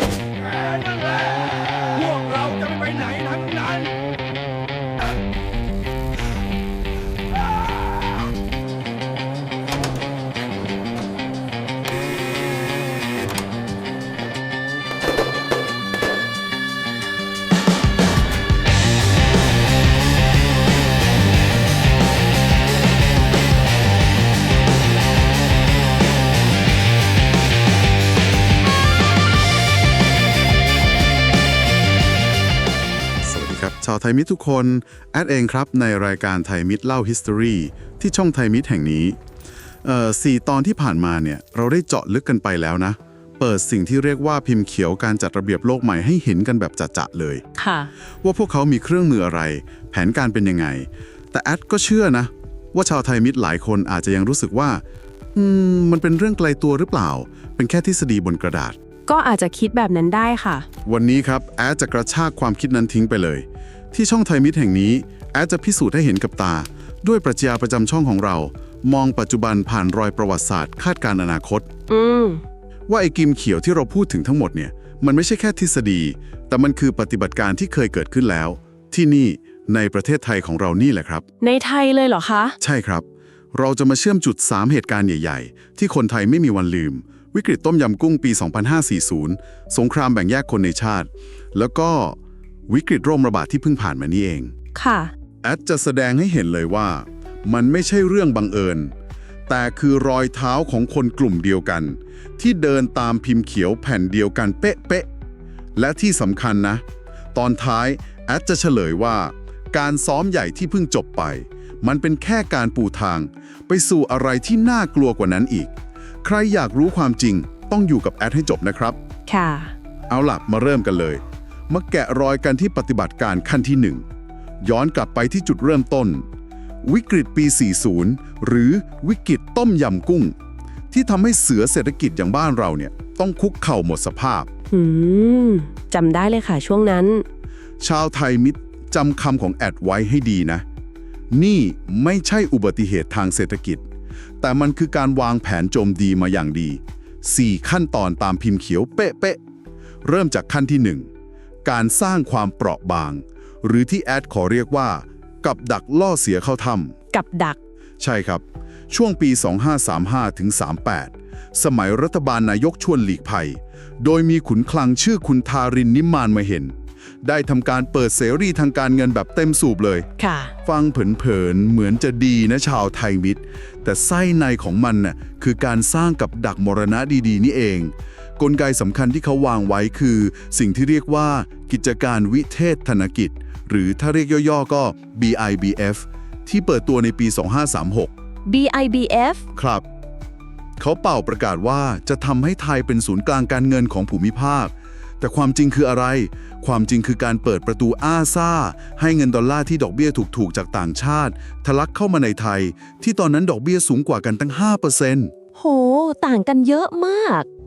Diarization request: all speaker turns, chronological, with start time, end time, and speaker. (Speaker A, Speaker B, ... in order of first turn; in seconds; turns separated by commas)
Speaker A: 0.7-1.3, Speaker A: 1.9-3.9, Speaker B: 33.2-39.2, Speaker B: 39.8-47.4, Speaker C: 47.5-47.9, Speaker B: 48.2-54.8, Speaker B: 55.3-58.8, Speaker C: 59.1-60.7, Speaker B: 60.8-71.7, Speaker C: 71.9-72.4, Speaker B: 72.9-81.2, Speaker C: 81.4-82.6, Speaker B: 82.6-94.5, Speaker C: 94.7-95.1, Speaker B: 95.4-98.9, Speaker B: 99.5-105.1, Speaker B: 105.7-119.0, Speaker C: 119.3-119.7, Speaker B: 120.1-124.0, Speaker B: 124.6-126.2, Speaker B: 126.8-130.3, Speaker B: 130.9-134.5, Speaker C: 134.7-137.2, Speaker B: 137.8-140.6, Speaker B: 141.3-143.8, Speaker B: 144.4-149.4, Speaker B: 150.0-151.1, Speaker B: 151.6-156.9, Speaker C: 157.1-157.6, Speaker B: 158.0-170.1, Speaker C: 170.2-170.5, Speaker B: 170.6-188.1, Speaker C: 188.4-189.4, Speaker B: 189.5-189.8, Speaker B: 190.8-205.3, Speaker C: 205.6-207.5